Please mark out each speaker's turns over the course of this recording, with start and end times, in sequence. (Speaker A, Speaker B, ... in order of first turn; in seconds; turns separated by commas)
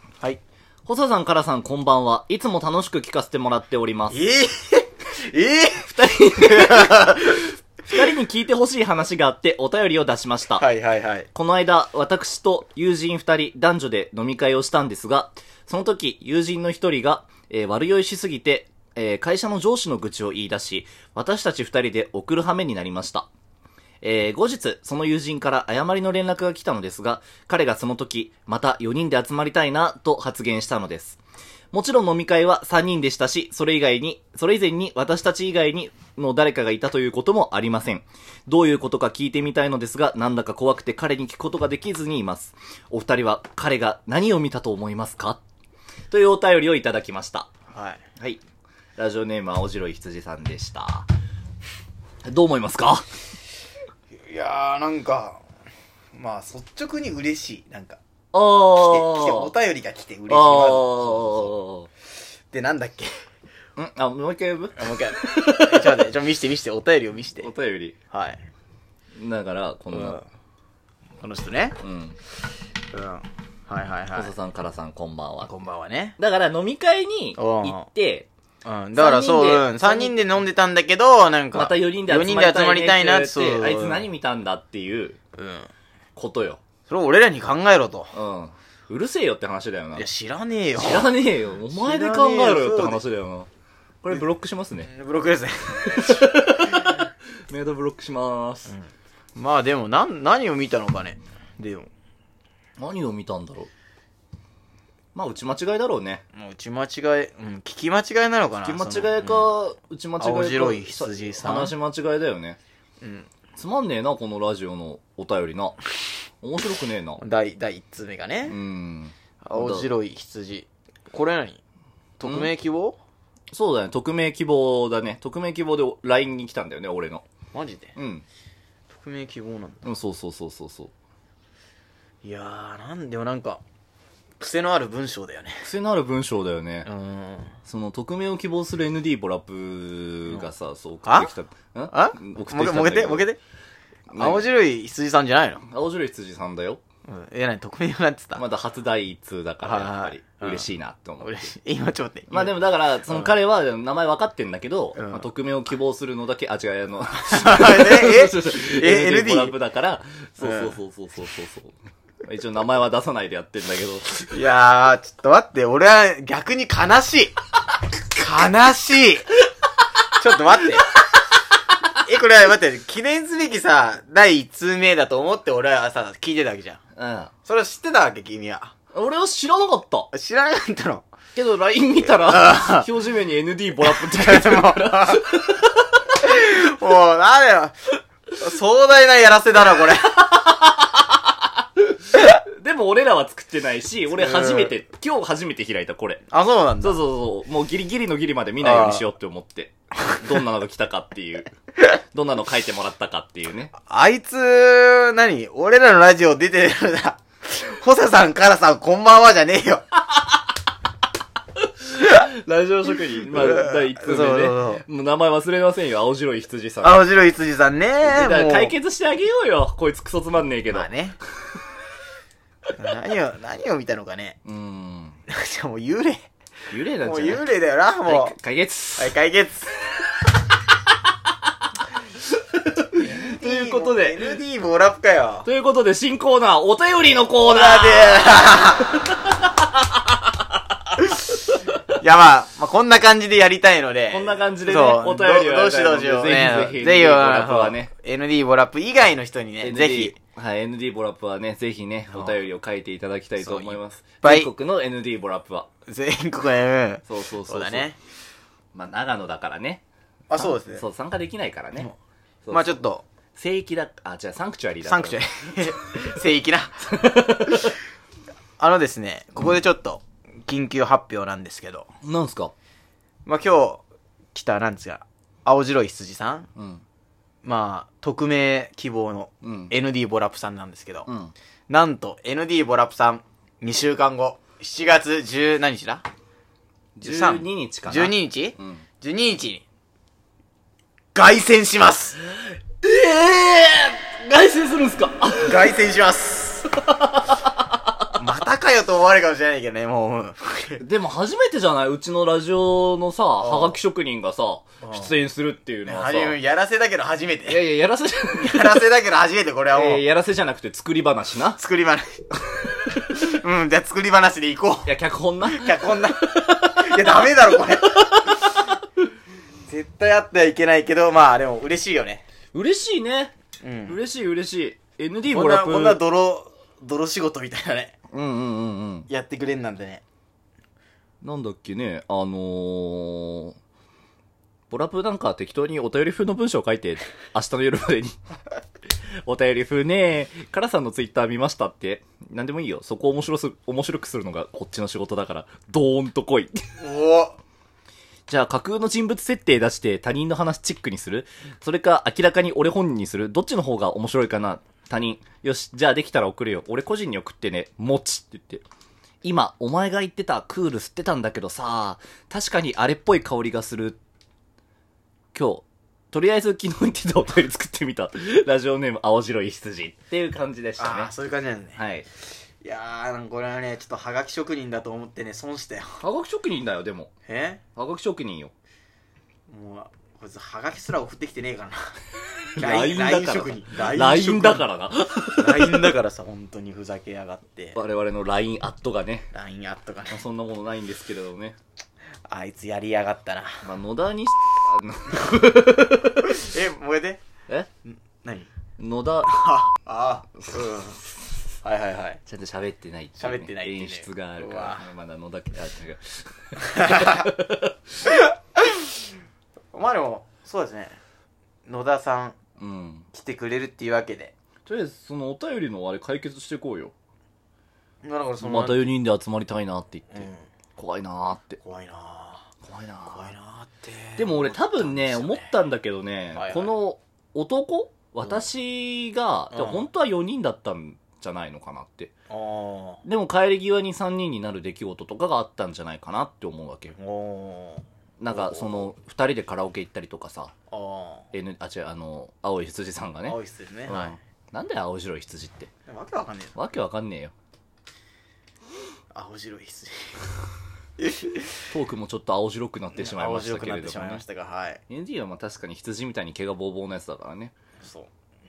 Speaker A: 0.9-4.2, Speaker B: 4.1-7.5, Speaker A: 5.8-10.7, Speaker B: 10.6-11.3, Speaker A: 11.3-23.3, Speaker A: 24.0-31.2, Speaker A: 31.7-45.4, Speaker A: 46.1-47.5, Speaker B: 47.7-48.0, Speaker A: 49.0-51.1, Speaker A: 52.3-53.1, Speaker B: 54.2-55.4, Speaker B: 56.1-58.0, Speaker A: 58.3-59.5, Speaker B: 58.8-61.6, Speaker A: 60.3-61.9, Speaker B: 62.5-63.1, Speaker A: 63.8-65.9, Speaker B: 64.8-67.5, Speaker A: 67.4-68.0, Speaker B: 68.1-68.4, Speaker A: 69.2-70.2, Speaker B: 69.9-70.2, Speaker B: 71.2-71.8, Speaker A: 71.8-72.2, Speaker B: 72.9-74.3, Speaker A: 74.2-75.5, Speaker B: 75.4-76.2, Speaker A: 76.2-78.3, Speaker B: 77.4-77.9, Speaker B: 78.7-84.1, Speaker A: 79.0-80.2, Speaker A: 81.5-85.2, Speaker B: 85.4-85.7, Speaker A: 86.2-86.6, Speaker B: 86.9-88.2, Speaker A: 88.1-90.1, Speaker B: 90.0-91.1, Speaker A: 90.8-93.5, Speaker B: 91.7-93.0, Speaker A: 94.0-94.9, Speaker B: 94.9-97.0, Speaker A: 95.9-98.8, Speaker B: 98.7-101.9, Speaker A: 102.8-103.7, Speaker A: 105.2-106.2, Speaker B: 106.3-109.5, Speaker A: 108.6-112.6, Speaker B: 110.2-111.8, Speaker B: 113.0-113.3, Speaker A: 113.6-115.8, Speaker A: 116.4-117.2, Speaker B: 117.2-118.6, Speaker A: 118.5-119.9, Speaker B: 119.4-121.6, Speaker B: 122.2-123.0, Speaker A: 122.2-122.5, Speaker A: 123.5-127.2, Speaker B: 127.5-128.0, Speaker A: 128.0-128.2, Speaker B: 128.9-129.9, Speaker A: 129.8-130.9, Speaker B: 132.2-133.6, Speaker B: 134.4-135.7, Speaker A: 135.6-136.9, Speaker B: 136.8-137.6, Speaker A: 137.7-143.3, Speaker B: 141.0-141.3, Speaker B: 141.9-143.4, Speaker B: 144.1-145.6, Speaker A: 144.1-144.4, Speaker A: 145.6-146.8, Speaker B: 147.1-148.4, Speaker A: 148.3-151.5, Speaker B: 149.6-150.7, Speaker B: 151.2-152.6, Speaker A: 152.3-164.3, Speaker B: 155.0-155.3, Speaker B: 157.3-159.6, Speaker B: 160.4-160.8, Speaker B: 164.3-167.3, Speaker B: 168.2-169.3, Speaker B: 170.2-170.9, Speaker B: 172.0-176.8, Speaker A: 177.0-177.3, Speaker B: 177.4-178.7, Speaker A: 178.9-180.1, Speaker B: 180.1-181.1, Speaker A: 181.3-185.9, Speaker B: 182.2-182.9, Speaker B: 183.8-185.3, Speaker B: 186.1-190.2, Speaker A: 190.3-191.0, Speaker A: 191.9-196.2, Speaker B: 194.2-194.7, Speaker B: 196.3-197.0, Speaker A: 196.8-203.7, Speaker B: 198.6-199.1, Speaker B: 203.8-209.8, Speaker A: 211.6-217.0, Speaker B: 213.3-214.8, Speaker B: 216.8-218.7, Speaker A: 218.0-220.9, Speaker B: 220.7-221.2, Speaker B: 222.8-224.4, Speaker A: 224.4-225.2, Speaker B: 225.3-226.3, Speaker A: 226.7-227.4, Speaker B: 227.0-228.3, Speaker A: 228.1-229.1, Speaker B: 229.0-229.7, Speaker A: 232.6-234.3, Speaker B: 232.9-235.5, Speaker A: 235.4-239.8, Speaker B: 237.5-239.0, Speaker B: 241.9-250.2, Speaker A: 244.1-247.9, Speaker A: 249.6-255.7, Speaker B: 252.1-252.4, Speaker B: 253.4-254.5, Speaker B: 255.9-258.0, Speaker A: 257.1-257.9, Speaker A: 258.7-259.8, Speaker B: 260.3-260.8, Speaker A: 260.4-261.9, Speaker A: 262.4-262.8, Speaker B: 262.5-263.1, Speaker A: 263.4-265.2, Speaker B: 264.9-267.7, Speaker A: 266.9-267.7, Speaker B: 268.6-271.9, Speaker A: 272.0-272.5, Speaker B: 273.3-273.8, Speaker B: 274.3-276.5, Speaker A: 276.6-276.8, Speaker B: 277.4-281.1, Speaker A: 279.4-279.7, Speaker A: 281.1-281.3, Speaker B: 281.7-286.1, Speaker A: 287.0-288.8, Speaker B: 287.0-289.6, Speaker B: 291.1-292.2, Speaker A: 292.8-295.7, Speaker B: 295.4-296.7, Speaker A: 296.8-297.5, Speaker B: 298.2-300.8, Speaker A: 300.8-306.4, Speaker B: 303.4-303.8, Speaker B: 304.8-305.2, Speaker B: 305.9-307.6, Speaker A: 307.5-308.9, Speaker B: 308.4-310.0, Speaker A: 309.7-311.6, Speaker B: 311.6-312.3, Speaker B: 313.0-314.9, Speaker A: 314.9-317.1, Speaker B: 315.5-318.3, Speaker B: 319.7-322.2, Speaker A: 322.5-323.3, Speaker B: 323.6-324.0, Speaker A: 323.9-326.0, Speaker B: 325.3-327.9, Speaker A: 328.1-329.1, Speaker B: 329.1-330.0, Speaker A: 331.2-333.6, Speaker A: 334.7-338.2, Speaker A: 339.2-346.6, Speaker B: 346.8-347.4, Speaker A: 348.3-358.6, Speaker A: 359.2-364.0, Speaker A: 365.3-371.1, Speaker B: 370.8-371.8, Speaker A: 371.8-372.1, Speaker B: 372.6-376.0, Speaker A: 376.0-377.1, Speaker B: 377.3-377.6, Speaker A: 377.8-378.5, Speaker B: 379.5-382.0, Speaker A: 382.6-385.9, Speaker B: 382.6-384.7, Speaker B: 385.4-387.8, Speaker A: 387.8-389.3, Speaker B: 389.3-390.2, Speaker A: 390.1-391.6, Speaker B: 392.3-393.6, Speaker A: 393.6-396.4, Speaker B: 396.2-397.2, Speaker B: 397.9-398.5, Speaker A: 398.8-399.3, Speaker B: 399.2-401.0, Speaker B: 401.6-402.2, Speaker A: 402.3-407.8, Speaker B: 403.2-404.9, Speaker B: 406.6-407.3, Speaker B: 408.6-408.9, Speaker B: 409.7-411.0, Speaker B: 411.7-412.4, Speaker A: 412.6-413.1, Speaker B: 413.1-414.3, Speaker A: 414.7-416.9, Speaker B: 418.0-418.8, Speaker A: 418.4-421.6, Speaker B: 420.1-420.4, Speaker B: 421.6-422.5, Speaker A: 422.6-423.3, Speaker B: 423.1-425.6, Speaker A: 424.2-432.1, Speaker B: 426.3-426.7, Speaker B: 429.5-429.9, Speaker B: 432.3-433.0, Speaker A: 433.1-437.0, Speaker B: 437.0-438.8, Speaker A: 438.2-440.5, Speaker B: 440.7-441.3, Speaker A: 441.3-443.4, Speaker B: 443.3-444.2, Speaker A: 443.9-445.7, Speaker B: 445.9-446.6, Speaker A: 446.6-447.3, Speaker B: 449.1-450.4, Speaker B: 451.0-451.6, Speaker A: 451.7-454.2, Speaker B: 452.9-454.8, Speaker A: 454.9-457.6, Speaker B: 457.8-458.1